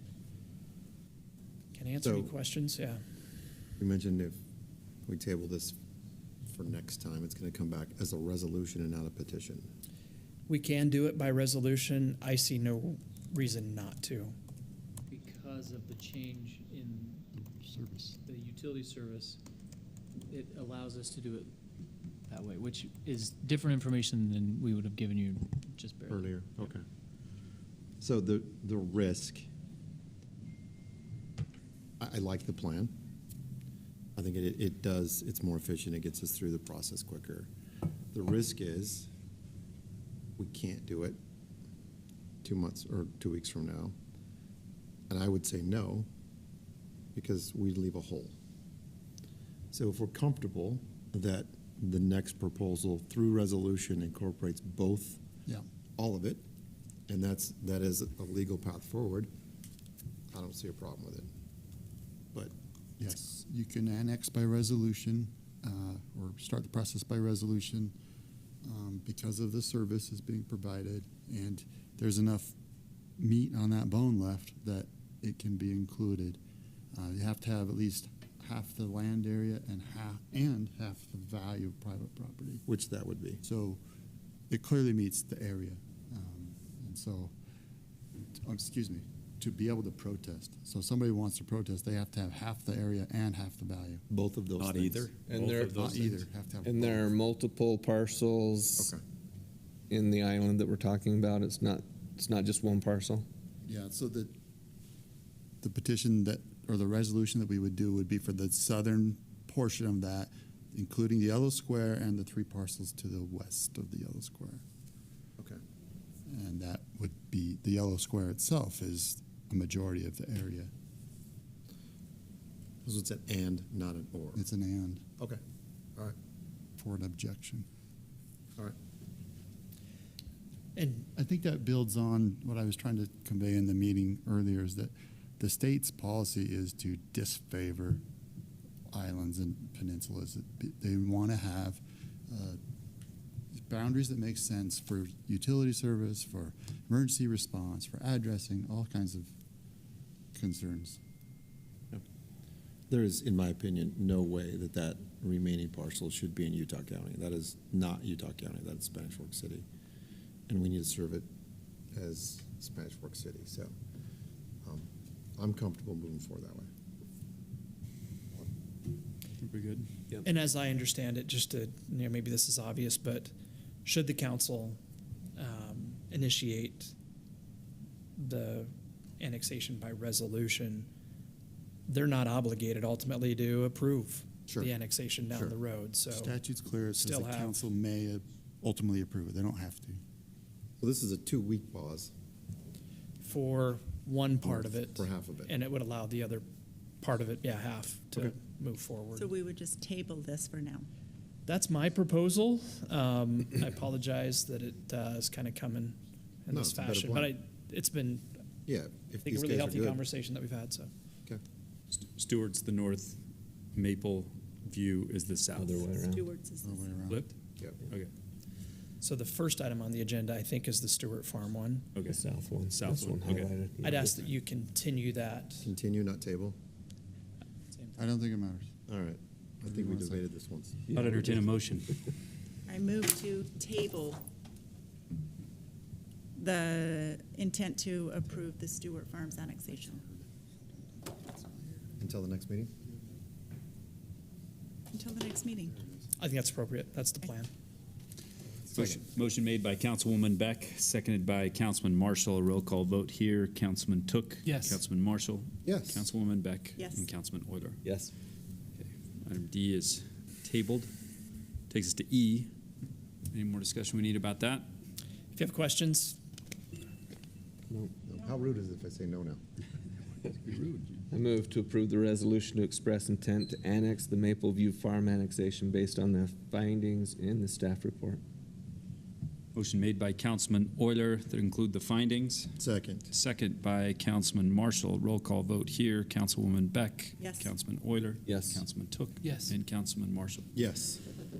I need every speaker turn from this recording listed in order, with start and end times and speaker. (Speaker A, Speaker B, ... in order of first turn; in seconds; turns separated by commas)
Speaker A: 1.7-3.0, Speaker B: 2.0-2.3, Speaker B: 3.8-4.4, Speaker B: 5.0-5.8, Speaker B: 6.5-9.7, Speaker A: 10.5-14.3, Speaker C: 15.1-17.2, Speaker D: 17.3-18.2, Speaker C: 18.2-19.4, Speaker C: 20.3-21.5, Speaker C: 22.3-26.7, Speaker B: 26.1-26.8, Speaker B: 28.0-29.5, Speaker B: 32.0-32.9, Speaker B: 34.1-37.5, Speaker B: 38.1-39.1, Speaker B: 40.4-41.2, Speaker B: 42.4-43.9, Speaker B: 45.1-46.1, Speaker B: 47.1-48.3, Speaker B: 49.7-55.2, Speaker B: 56.0-56.4, Speaker B: 57.1-59.3, Speaker B: 60.3-61.3, Speaker D: 63.0-67.9, Speaker D: 68.6-72.5, Speaker D: 73.2-76.4, Speaker D: 76.9-82.6, Speaker B: 82.7-83.4, Speaker D: 83.4-83.8, Speaker D: 84.5-87.3, Speaker D: 88.4-94.0, Speaker B: 94.1-95.1, Speaker E: 94.6-96.2, Speaker F: 95.3-95.9, Speaker D: 95.7-97.1, Speaker F: 96.6-98.9, Speaker F: 99.9-103.2, Speaker D: 103.6-104.3, Speaker D: 105.6-114.6, Speaker D: 116.2-120.7, Speaker B: 122.8-124.4, Speaker D: 124.3-125.0, Speaker D: 126.8-127.7, Speaker A: 130.8-131.1, Speaker D: 131.1-138.0, Speaker D: 138.9-142.6, Speaker D: 143.5-149.3, Speaker D: 150.3-151.0, Speaker B: 152.9-159.6, Speaker B: 160.5-161.2, Speaker B: 161.9-163.7, Speaker B: 164.6-166.7, Speaker E: 169.4-169.9, Speaker A: 170.2-173.3, Speaker A: 173.8-174.8, Speaker A: 175.3-176.9, Speaker A: 178.2-180.9, Speaker A: 181.9-186.3, Speaker D: 186.1-190.0, Speaker A: 187.0-187.6, Speaker B: 190.8-192.1, Speaker A: 193.2-196.5, Speaker B: 194.4-195.5, Speaker A: 197.0-199.3, Speaker G: 199.1-200.9, Speaker A: 201.4-208.4, Speaker B: 206.5-207.3, Speaker B: 208.7-210.0, Speaker A: 209.2-210.9, Speaker E: 211.9-213.2, Speaker E: 213.7-215.8, Speaker F: 215.5-216.3, Speaker G: 215.8-216.9, Speaker D: 216.6-217.2, Speaker A: 219.0-221.8, Speaker E: 221.9-223.5, Speaker F: 222.1-224.1, Speaker A: 223.8-225.7, Speaker B: 225.6-226.6, Speaker D: 228.0-228.7, Speaker B: 228.9-230.8, Speaker D: 229.6-230.2, Speaker F: 230.9-231.4, Speaker E: 230.9-231.9, Speaker G: 232.7-234.2, Speaker G: 236.3-240.0, Speaker D: 239.7-242.0, Speaker B: 242.0-242.7, Speaker D: 242.8-243.1, Speaker G: 244.9-245.8, Speaker A: 246.2-247.5, Speaker B: 248.7-249.0, Speaker E: 248.7-257.8, Speaker C: 254.4-254.8, Speaker B: 255.6-256.1, Speaker G: 256.8-257.0, Speaker F: 257.8-258.1, Speaker E: 258.8-260.9, Speaker E: 261.7-262.5, Speaker E: 263.3-264.7, Speaker A: 265.3-266.2, Speaker B: 268.0-269.4, Speaker E: 270.4-271.0, Speaker F: 271.1-278.2, Speaker E: 279.5-282.5, Speaker B: 282.6-283.0, Speaker E: 283.1-290.5, Speaker G: 287.2-287.5, Speaker F: 288.2-288.6, Speaker C: 289.2-289.5, Speaker B: 290.5-291.0